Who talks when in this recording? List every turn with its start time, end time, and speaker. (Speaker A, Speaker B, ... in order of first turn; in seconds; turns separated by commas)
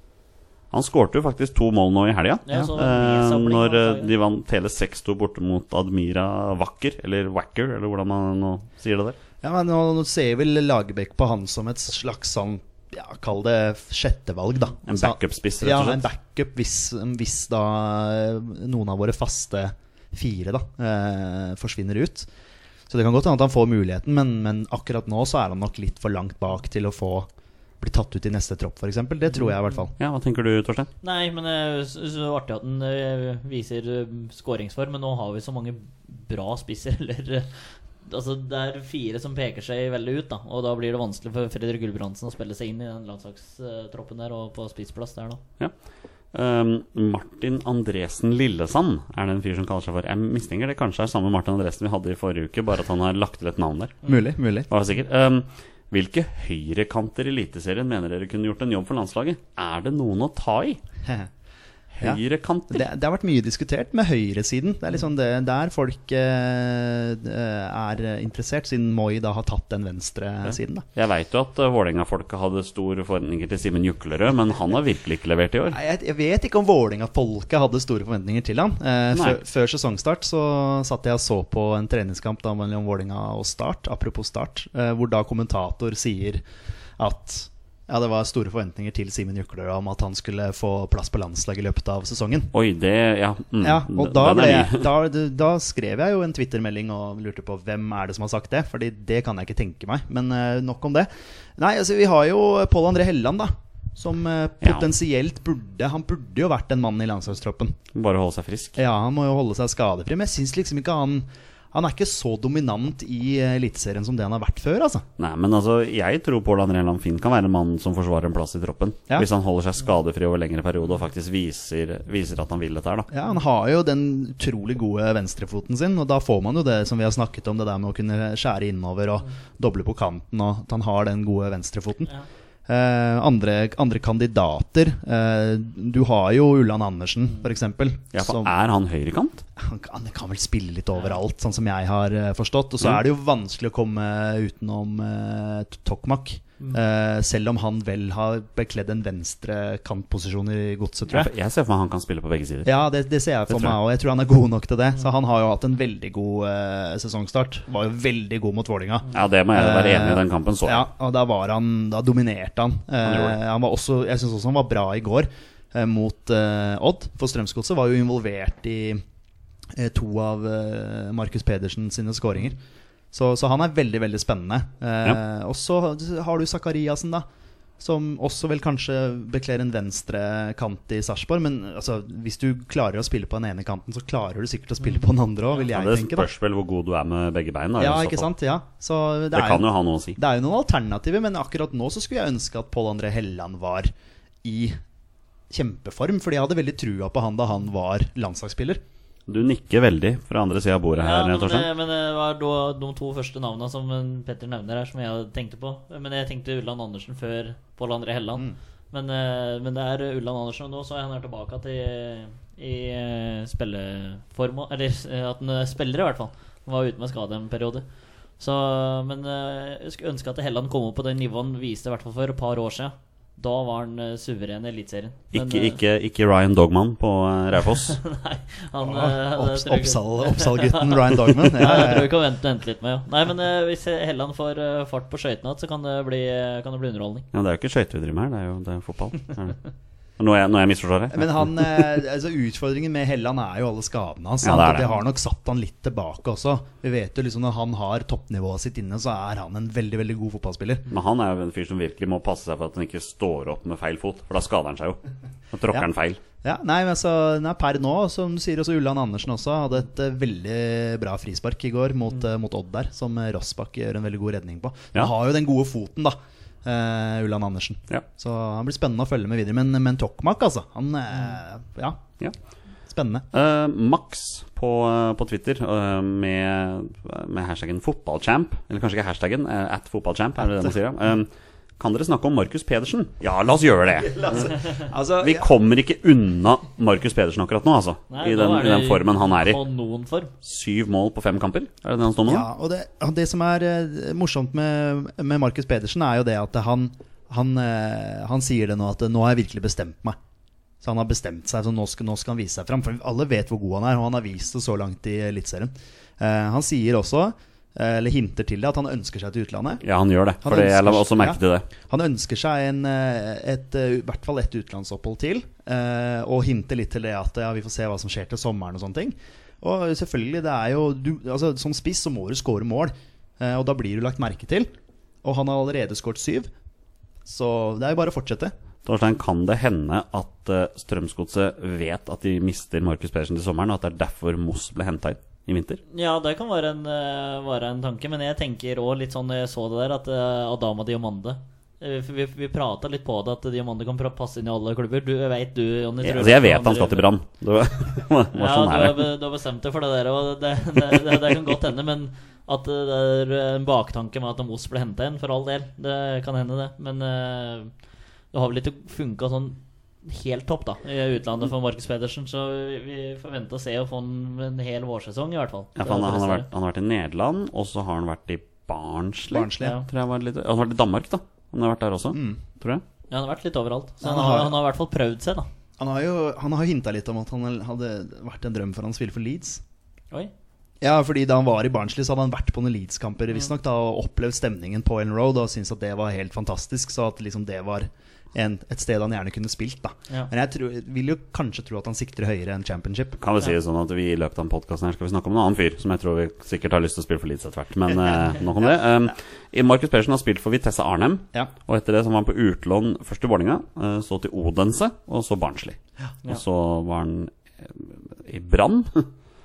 Speaker A: 0.7-9.2, Speaker B: 2.5-4.1, Speaker C: 9.4-22.3, Speaker A: 14.9-16.0, Speaker C: 22.9-27.3, Speaker C: 27.8-29.9, Speaker A: 30.0-30.9, Speaker B: 31.0-45.4, Speaker A: 46.3-54.0, Speaker C: 54.1-54.7, Speaker A: 54.7-60.8, Speaker A: 61.9-62.9, Speaker C: 62.0-70.8, Speaker A: 70.5-75.8, Speaker C: 75.7-86.4, Speaker A: 79.1-79.4, Speaker C: 87.0-92.5, Speaker A: 92.5-94.9, Speaker C: 93.6-107.8, Speaker A: 104.6-104.9, Speaker A: 108.0-108.8, Speaker C: 108.8-115.0, Speaker A: 115.2-123.1, Speaker C: 123.1-132.1, Speaker C: 132.7-138.5, Speaker A: 138.1-139.4, Speaker C: 139.6-151.3, Speaker A: 151.1-152.7, Speaker C: 152.7-169.0, Speaker A: 153.5-153.8, Speaker A: 159.1-160.9, Speaker A: 163.0-163.4, Speaker C: 169.8-172.6, Speaker C: 173.1-177.2, Speaker C: 177.8-186.3, Speaker A: 185.6-188.3, Speaker C: 187.8-193.9, Speaker A: 189.3-190.2, Speaker C: 194.4-194.8, Speaker C: 195.5-198.8, Speaker A: 199.3-201.7, Speaker B: 201.0-217.8, Speaker B: 218.4-225.8, Speaker A: 225.3-228.0, Speaker B: 227.8-237.3, Speaker C: 228.8-232.2, Speaker A: 237.3-239.6, Speaker A: 240.2-241.9, Speaker C: 241.1-250.9, Speaker A: 244.4-245.0, Speaker A: 250.9-255.0, Speaker A: 255.5-256.2, Speaker C: 256.4-272.0, Speaker C: 272.9-273.3, Speaker A: 273.3-284.6, Speaker C: 284.0-285.5, Speaker A: 285.2-289.6, Speaker B: 288.1-290.3, Speaker A: 290.4-292.5, Speaker C: 292.2-300.2, Speaker C: 300.8-309.8, Speaker A: 309.8-311.7, Speaker C: 310.4-324.7, Speaker C: 325.2-326.5, Speaker C: 327.3-328.5, Speaker A: 328.9-335.8, Speaker B: 335.9-347.1, Speaker A: 346.0-349.1, Speaker B: 348.3-357.7, Speaker B: 358.3-366.5, Speaker A: 365.8-372.8, Speaker C: 369.3-369.8, Speaker C: 372.1-372.4, Speaker B: 373.1-375.5, Speaker C: 374.0-374.6, Speaker C: 375.8-379.6, Speaker C: 380.8-393.2, Speaker A: 393.2-409.1, Speaker C: 398.0-399.1